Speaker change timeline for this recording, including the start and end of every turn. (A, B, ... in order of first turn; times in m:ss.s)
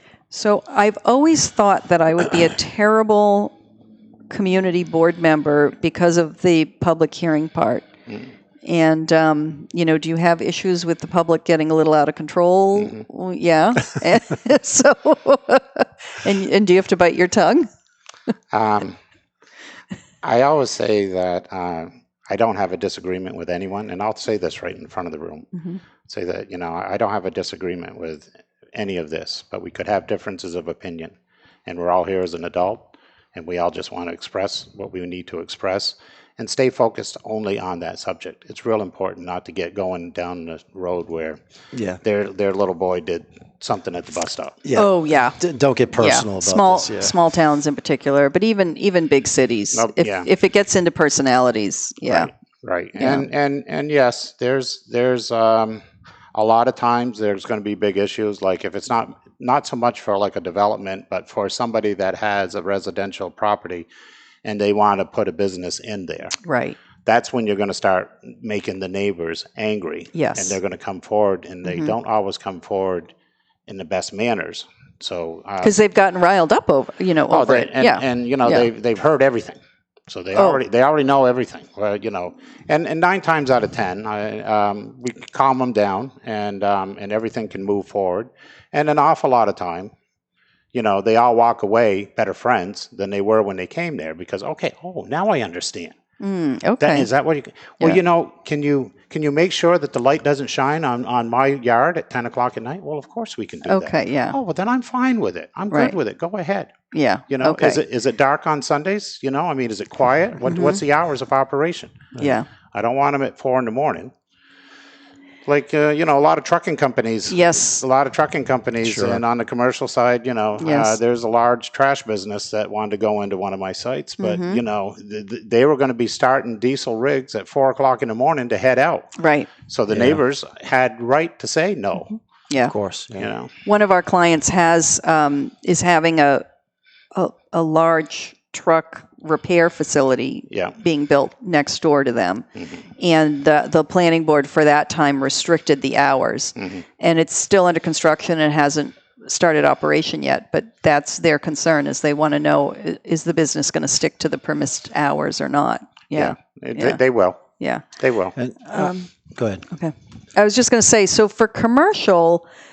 0:00.3-0:03.5 A
0:04.3-0:07.9 A
0:08.6-0:17.7 A
0:12.8-0:13.0 B
0:18.5-0:19.0 B
0:20.2-0:25.5 B
0:26.0-0:41.4 B
0:41.7-0:42.0 C
0:42.0-0:44.6 B
0:44.6-0:47.2 C
0:44.7-0:45.4 A
0:45.9-0:52.3 A
0:49.7-0:50.3 B
0:52.0-0:55.8 B
0:53.0-0:53.3 A
0:56.3-1:03.9 B
1:04.4-1:06.4 B
1:06.4-1:06.8 A
1:07.0-1:13.1 B
1:10.1-1:10.6 A
1:11.6-1:11.9 A
1:13.7-1:15.8 B
1:15.6-1:18.6 A
1:17.3-1:29.9 B
1:20.4-1:20.6 A
1:30.7-1:36.0 B
1:36.2-1:37.1 A
1:36.8-1:46.7 B
1:43.6-1:44.4 A
1:46.9-1:47.8 A
1:47.3-1:52.1 B
1:50.4-1:50.8 A
1:52.2-1:52.5 A
1:52.7-1:54.1 B
1:55.4-2:09.1 B
1:57.3-1:57.8 A
1:58.8-1:59.2 C
2:00.6-2:01.0 A
2:04.2-2:04.6 A
2:09.2-2:09.5 A
2:09.7-2:12.2 B
2:09.9-2:10.2 C
2:12.6-2:13.3 C
2:13.1-2:13.5 B
2:13.6-2:16.4 A
2:17.1-2:22.4 A
2:20.5-2:20.8 B
2:22.6-2:22.8 B
2:23.0-2:37.0 A
2:26.6-2:26.8 B
2:36.1-2:37.4 B
2:37.6-2:37.8 A
2:38.0-2:38.3 B
2:38.4-2:39.6 C
2:38.7-2:39.1 A
2:39.7-2:42.4 A